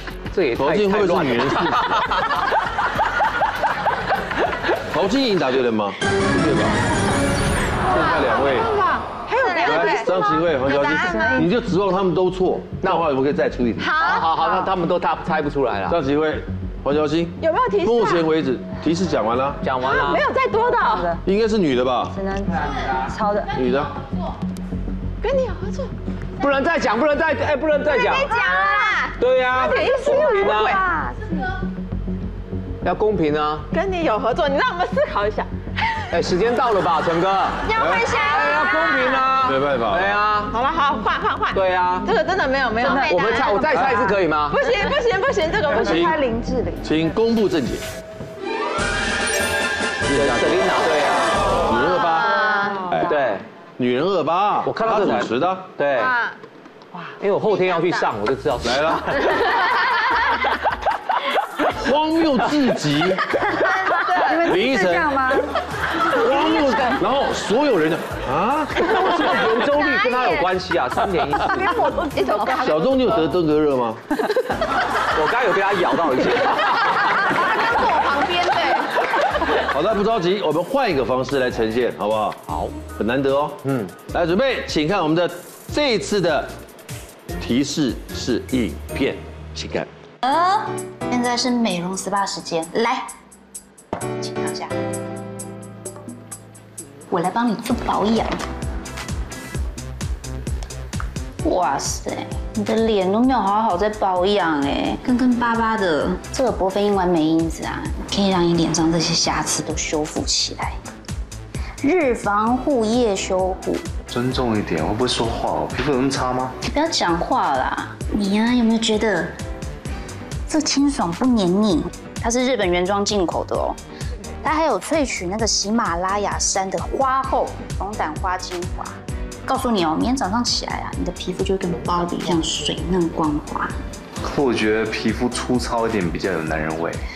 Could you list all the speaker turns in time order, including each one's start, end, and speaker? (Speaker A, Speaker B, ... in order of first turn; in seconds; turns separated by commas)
Speaker A: 0.3-2.2, Speaker B: 0.6-2.2, Speaker B: 4.9-6.8, Speaker B: 7.9-8.7, Speaker C: 7.9-11.5, Speaker D: 9.4-10.0, Speaker B: 9.6-14.0, Speaker D: 11.0-11.5, Speaker A: 12.8-13.1, Speaker C: 13.8-14.6, Speaker A: 13.9-16.0, Speaker B: 15.9-19.6, Speaker C: 17.4-18.3, Speaker A: 19.6-20.3, Speaker C: 19.8-21.2, Speaker D: 20.5-21.2, Speaker B: 21.2-22.2, Speaker D: 22.1-23.5, Speaker B: 23.5-23.9, Speaker C: 25.2-25.9, Speaker A: 26.4-28.4, Speaker C: 27.9-31.5, Speaker D: 28.4-28.9, Speaker A: 29.1-30.9, Speaker A: 32.8-33.7, Speaker C: 33.7-36.0, Speaker A: 36.1-40.5, Speaker C: 37.6-39.3, Speaker B: 37.8-38.2, Speaker B: 39.4-40.2, Speaker C: 40.5-43.9, Speaker A: 41.5-42.1, Speaker A: 42.8-44.6, Speaker D: 42.8-43.9, Speaker C: 44.5-46.1, Speaker D: 45.7-46.9, Speaker B: 45.7-46.2, Speaker B: 46.8-47.8, Speaker B: 50.0-51.0, Speaker A: 50.1-51.5, Speaker B: 51.5-53.2, Speaker C: 51.8-52.9, Speaker D: 52.3-53.0, Speaker A: 53.1-53.5, Speaker B: 53.8-55.7, Speaker A: 54.6-56.2, Speaker C: 56.0-56.4, Speaker A: 57.2-59.6, Speaker C: 57.5-58.1, Speaker B: 58.6-59.2, Speaker B: 61.7-63.3, Speaker C: 63.5-64.6, Speaker D: 64.3-65.4, Speaker B: 64.4-65.4, Speaker B: 66.0-69.0, Speaker A: 68.8-71.8, Speaker C: 69.8-70.5, Speaker C: 71.4-73.3, Speaker B: 72.6-74.0, Speaker A: 75.1-77.3, Speaker C: 77.3-79.0, Speaker B: 79.6-86.5, Speaker A: 82.5-82.7, Speaker B: 87.4-89.9, Speaker E: 90.2-93.1, Speaker E: 94.2-94.7, Speaker E: 97.1-98.4, Speaker E: 101.4-110.8, Speaker E: 111.8-113.9, Speaker F: 114.1-116.6, Speaker E: 116.6-119.3, Speaker E: 120.5-123.8, Speaker E: 124.4-133.8, Speaker F: 134.2-137.0